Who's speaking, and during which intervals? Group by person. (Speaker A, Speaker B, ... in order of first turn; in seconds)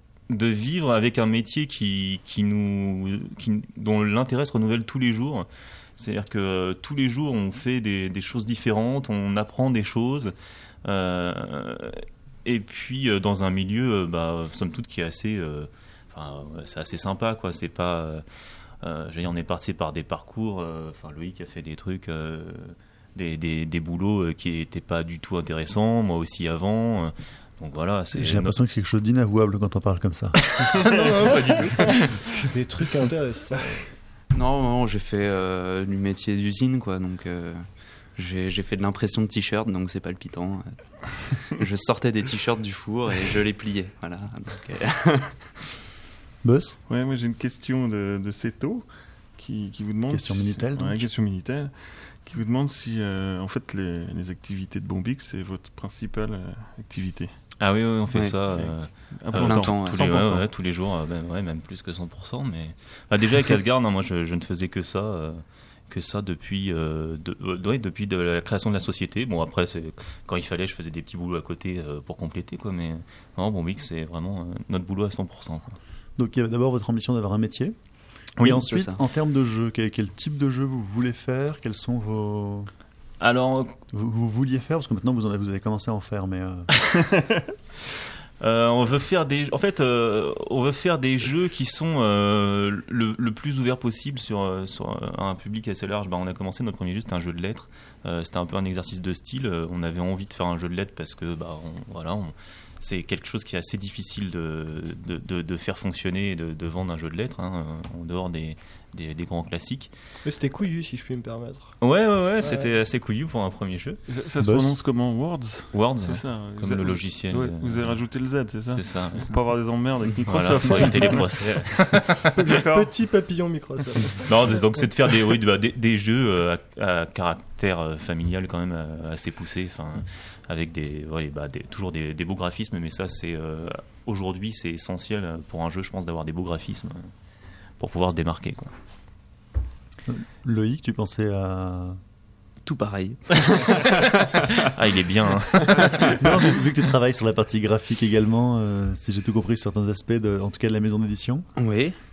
Speaker A: 0.3-10.3, 10.8-18.2, 18.8-28.5, 30.4-32.5, 57.6-75.8, 78.4-78.7, 83.2-83.8, 88.4-109.9, 111.8-114.0, 115.7-119.3, 120.3-122.3, 124.2-137.1, 137.8-138.7, 144.6-146.3
Speaker B: 28.1-30.4, 46.4-46.8, 50.1-51.1, 76.2-77.7, 78.4-82.7, 83.9-86.7, 114.4-114.7, 140.0-142.0, 146.2-151.4
Speaker C: 32.5-33.6, 110.2-111.7, 122.3-124.3
Speaker D: 34.3-45.6, 59.4-60.0, 78.7-79.0, 142.6-144.4, 145.7-146.1, 151.6-151.9
Speaker E: 46.9-57.4, 58.6-60.5, 114.1-121.4, 122.5-122.9